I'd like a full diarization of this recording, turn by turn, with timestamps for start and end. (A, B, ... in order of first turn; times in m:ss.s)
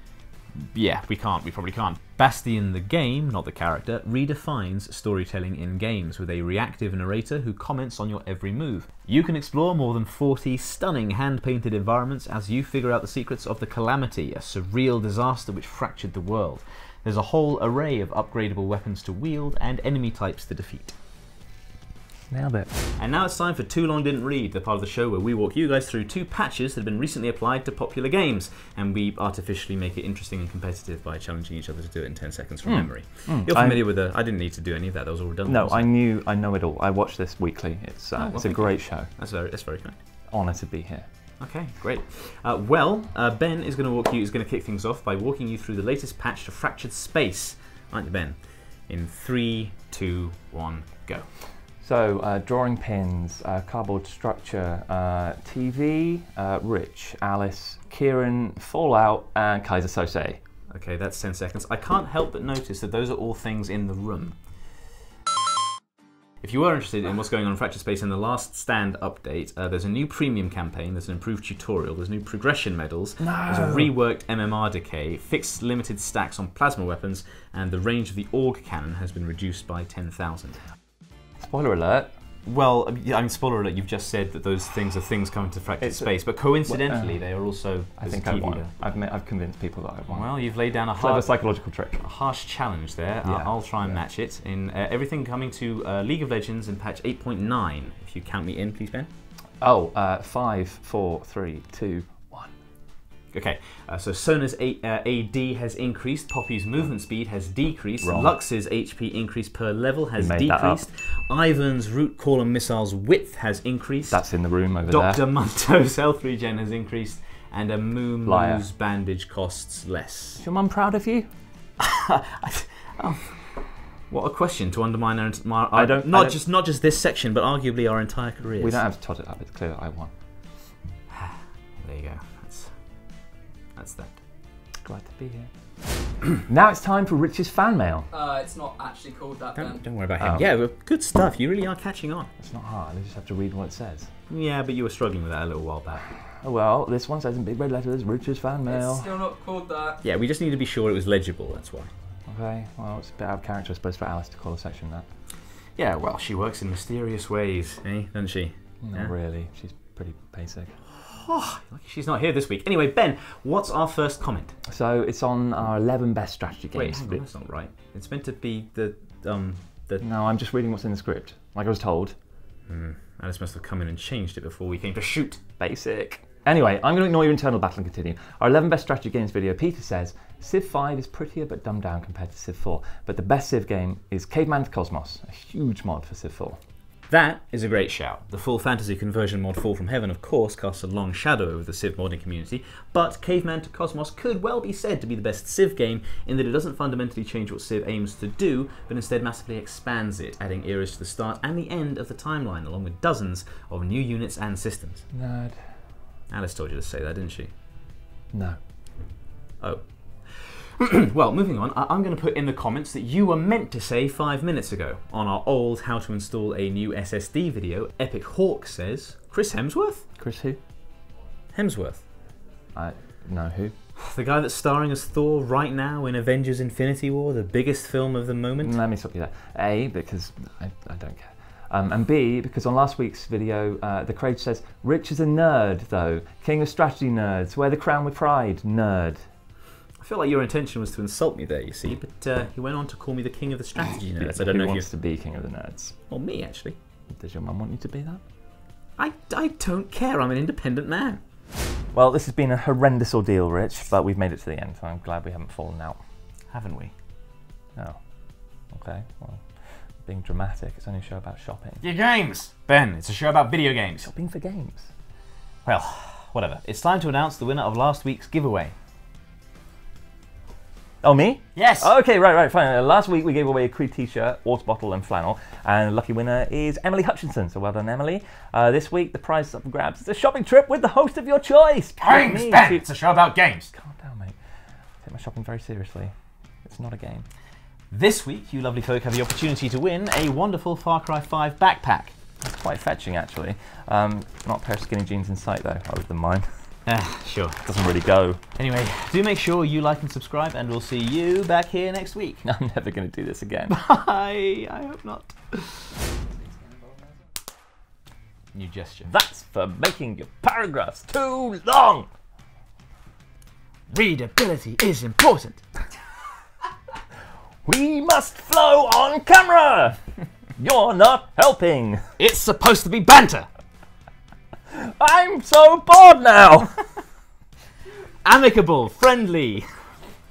0:00.6-0:21.0 A
0:22.3-0:22.7 B
0:22.9-0:35.9 A
0:32.6-0:33.8 B
0:35.5-0:39.1 B
0:38.2-0:40.0 A
0:40.3-0:41.0 B
0:41.4-0:51.3 A
0:51.8-1:00.4 B
1:00.7-1:04.4 A
1:06.4-1:20.6 A
1:13.2-1:13.9 B
1:21.4-1:22.1 B
1:22.5-1:28.7 A
1:25.8-1:26.1 B
1:26.7-1:27.2 B
1:28.0-1:30.3 B
1:30.1-1:31.3 A
1:31.0-1:32.0 B
1:32.0-1:39.1 A
1:33.2-1:34.0 B
1:39.6-1:42.5 B
1:43.3-1:54.2 A
1:48.0-1:48.3 B
1:50.2-1:50.8 B
1:54.1-1:55.2 B
1:54.8-2:00.4 A
1:58.2-1:58.7 B
2:00.4-2:01.3 B
2:01.8-2:08.8 A
2:05.7-2:06.4 B
2:08.6-2:10.1 B
2:11.1-2:12.8 A
2:13.8-2:14.2 A
2:14.8-2:15.5 B
2:16.5-2:18.1 B
2:18.1-2:19.8 C
2:19.6-2:22.3 A
2:20.2-2:20.5 B
2:22.4-2:24.1 B
2:24.3-2:26.1 A
2:26.4-2:29.3 B
2:28.9-2:30.0 C
2:30.0-2:31.9 A
2:32.3-2:35.1 B
2:35.8-2:39.1 A
2:38.8-2:40.8 B
2:40.9-2:44.6 A
2:44.7-2:47.2 B
2:46.7-2:50.0 A
2:50.0-2:52.1 B
2:52.7-2:55.4 A
2:55.6-3:06.6 B
3:07.1-3:25.0 A
3:25.1-3:25.7 B
3:26.3-3:27.5 A
3:29.6-3:40.0 A
3:40.2-3:40.6 B
3:41.5-3:42.1 A
3:42.8-3:43.7 B
3:44.0-3:48.8 A
3:48.6-3:59.2 B
4:00.0-4:04.9 A
4:04.1-4:05.9 B
4:06.1-4:06.8 A
4:07.1-4:08.2 B
4:09.0-4:11.2 A
4:11.9-4:16.0 B
4:16.5-4:16.9 A
4:18.7-4:21.8 B
4:21.8-4:24.1 A
4:24.0-4:24.9 B
4:25.6-4:28.8 A
4:31.0-4:42.9 B
4:31.6-4:31.9 A
4:42.0-4:43.7 A
4:43.7-4:44.4 B
4:45.0-4:46.1 B
4:46.6-4:47.2 B
4:47.9-4:52.2 A
4:52.4-4:56.6 B
4:56.9-4:57.6 A
4:57.6-4:58.4 B
4:58.6-5:02.4 A
5:02.4-5:03.7 B
5:03.7-5:06.0 A
5:08.5-5:09.1 A
5:09.1-5:12.1 B
5:13.9-5:15.6 A
5:17.6-5:20.0 B
5:20.6-5:22.0 B
5:22.2-5:23.5 A
5:24.7-5:26.8 B
5:28.2-5:29.7 A